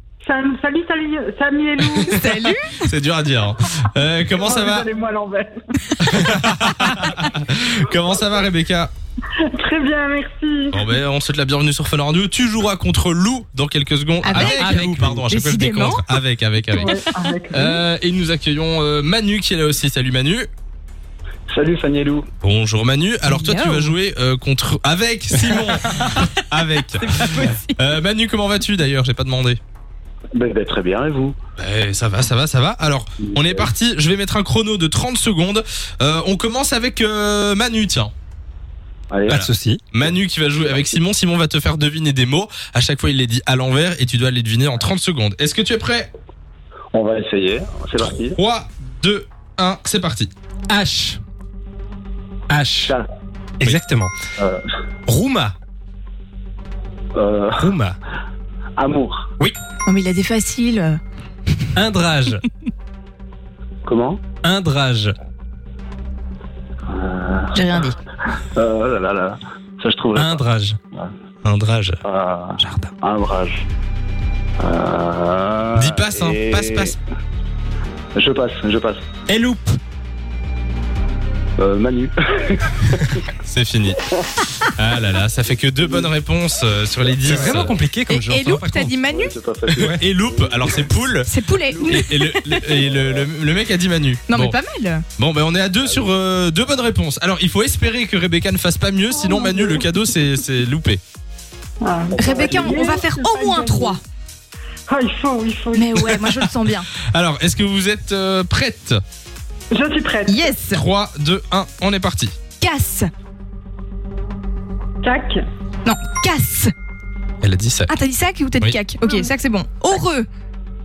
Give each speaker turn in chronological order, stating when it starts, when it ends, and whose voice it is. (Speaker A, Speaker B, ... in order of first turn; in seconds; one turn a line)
Speaker A: 0.2-2.2
Speaker B: 1.9-4.9
Speaker C: 2.2-2.8
Speaker A: 4.4-5.5
Speaker B: 6.0-8.9
Speaker A: 9.4-10.8
Speaker B: 10.7-17.0
Speaker C: 14.2-14.5
Speaker D: 14.3-15.3
Speaker C: 15.3-16.0
Speaker A: 16.8-17.8
Speaker B: 17.5-20.5
Speaker E: 21.5-22.3
Speaker B: 22.4-29.6
Speaker C: 23.4-23.9
Speaker C: 27.0-27.8
Speaker E: 30.3-31.3
Speaker B: 31.6-38.1
Speaker E: 33.2-33.7
Speaker E: 39.1-39.4
Speaker D: 39.3-39.8
Speaker B: 39.3-46.1
Speaker E: 46.9-48.4
Speaker B: 48.0-50.3
Speaker D: 50.7-51.2
Speaker D: 52.5-52.9
Speaker D: 53.6-54.1
Speaker D: 55.1-55.5
Speaker E: 57.1-57.7
Speaker D: 57.6-58.0
Speaker E: 58.8-59.3
Speaker C: 59.9-61.0
Speaker D: 61.8-62.4
Speaker E: 63.8-64.2
Speaker D: 64.4-65.1
Speaker E: 66.9-67.7
Speaker C: 67.5-68.0
Speaker E: 68.5-70.4
Speaker D: 70.1-70.8
Speaker B: 71.4-72.0
Speaker E: 72.0-73.6
Speaker D: 72.6-72.9
Speaker E: 74.6-76.9
Speaker B: 75.7-77.0
Speaker E: 78.2-79.0
Speaker D: 79.3-79.8
Speaker E: 81.6-83.2
Speaker B: 83.4-84.0
Speaker B: 84.6-87.8
Speaker E: 85.8-86.1
Speaker D: 87.2-89.1
Speaker C: 88.3-89.2
Speaker E: 89.1-90.9
Speaker D: 89.7-90.0
Speaker B: 89.8-91.3
Speaker C: 91.3-92.6
Speaker E: 91.7-92.1
Speaker B: 91.8-94.6
Speaker E: 92.7-93.2
Speaker C: 94.3-95.0
Speaker B: 95.2-101.0
Speaker A: 99.1-99.8
Speaker A: 101.8-104.0
Speaker E: 102.1-103.0
Speaker C: 102.2-104.0
Speaker A: 104.9-106.0
Speaker C: 105.8-106.9
Speaker B: 106.0-106.5
Speaker B: 107.1-109.0
Speaker A: 109.7-110.6
Speaker C: 110.3-110.8
Speaker B: 110.7-112.3
Speaker C: 112.6-113.1
Speaker A: 115.0-115.4
Speaker C: 115.8-116.7
Speaker B: 117.4-117.9
Speaker C: 117.9-120.3